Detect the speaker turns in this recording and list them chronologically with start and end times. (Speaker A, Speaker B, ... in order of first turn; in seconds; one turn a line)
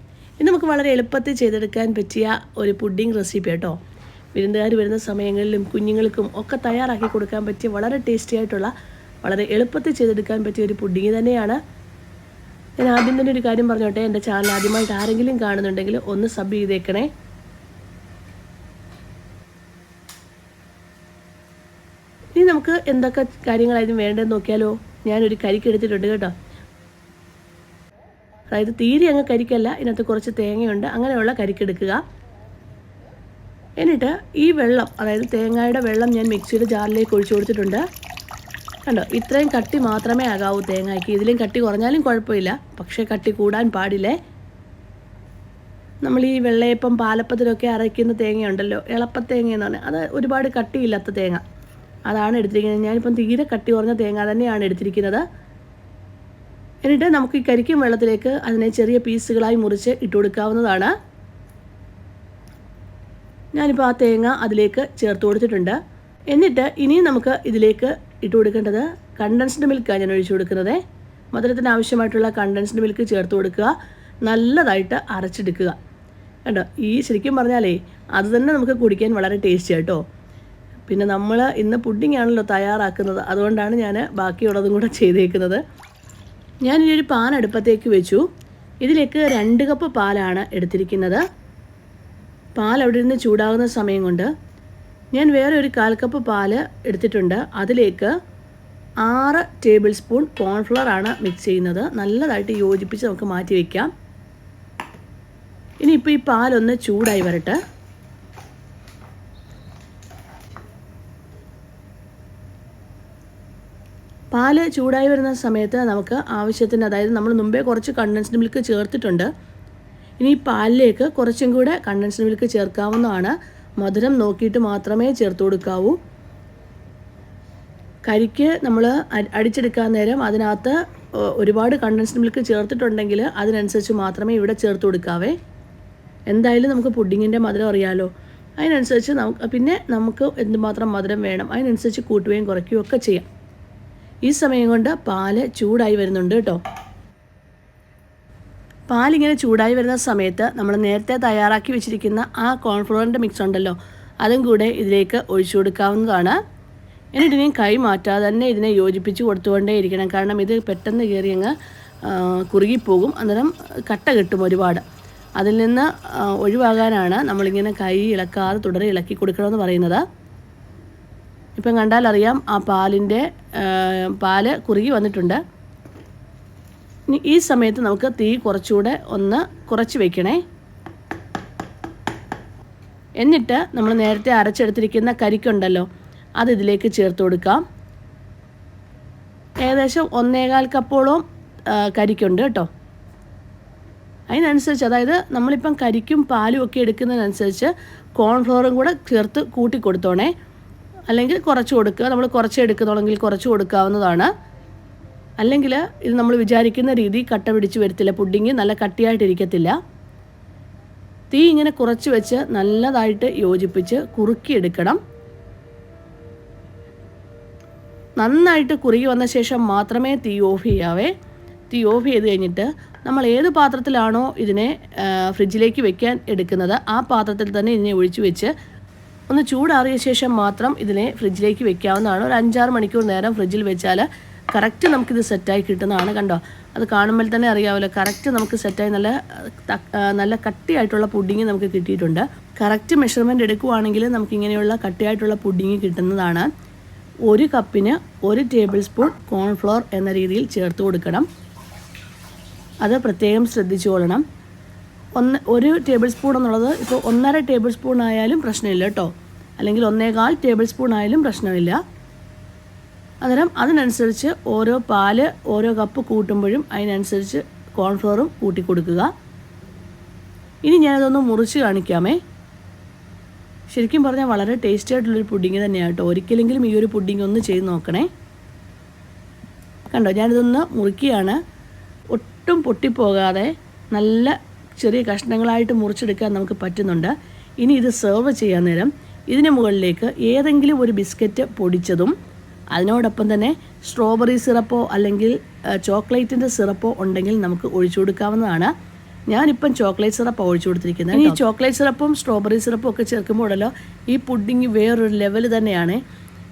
Speaker A: 0.4-3.8
Speaker A: 4.3-11.6
Speaker A: 12.8-17.1
Speaker A: 22.4-26.3
Speaker A: 28.5-32.0
Speaker A: 33.8-37.8
Speaker A: 38.8-44.1
Speaker A: 46.0-51.4
Speaker A: 52.1-55.2
Speaker A: 56.8-60.9
Speaker A: 63.5-65.8
Speaker A: 66.3-70.8
Speaker A: 71.3-73.7
Speaker A: 74.2-75.8
Speaker A: 76.4-80.0
Speaker A: 80.9-85.6
Speaker A: 86.6-88.2
Speaker A: 88.8-91.2
Speaker A: 92.6-94.3
Speaker A: 95.1-98.1
Speaker A: 99.0-103.9
Speaker A: 105.8-107.6
Speaker A: 114.3-119.3
Speaker A: 120.2-126.0
Speaker A: 128.1-135.3
Speaker A: 136.3-143.3
Speaker A: 144.2-146.6
Speaker A: 148.9-156.3
Speaker A: 157.1-161.5
Speaker A: 162.0-164.8
Speaker A: 165.4-170.0
Speaker A: 171.6-175.4
Speaker A: 177.1-180.4
Speaker A: 183.2-185.8
Speaker A: 186.4-187.6
Speaker A: 189.6-192.7
Speaker A: 194.3-200.3
Speaker A: 201.1-204.3
Speaker A: 205.4-209.8
Speaker A: 211.3-215.0
Speaker A: 218.2-221.1
Speaker A: 221.7-228.5
Speaker A: 229.3-246.5
Speaker A: 247.3-251.2
Speaker A: 252.8-254.2
Speaker A: 255.2-261.8
Speaker A: 263.2-269.1
Speaker A: 270.6-272.2
Speaker A: 273.7-278.1
Speaker A: 279.9-281.4
Speaker A: 282.1-292.1
Speaker A: 292.7-298.7
Speaker A: 299.3-306.0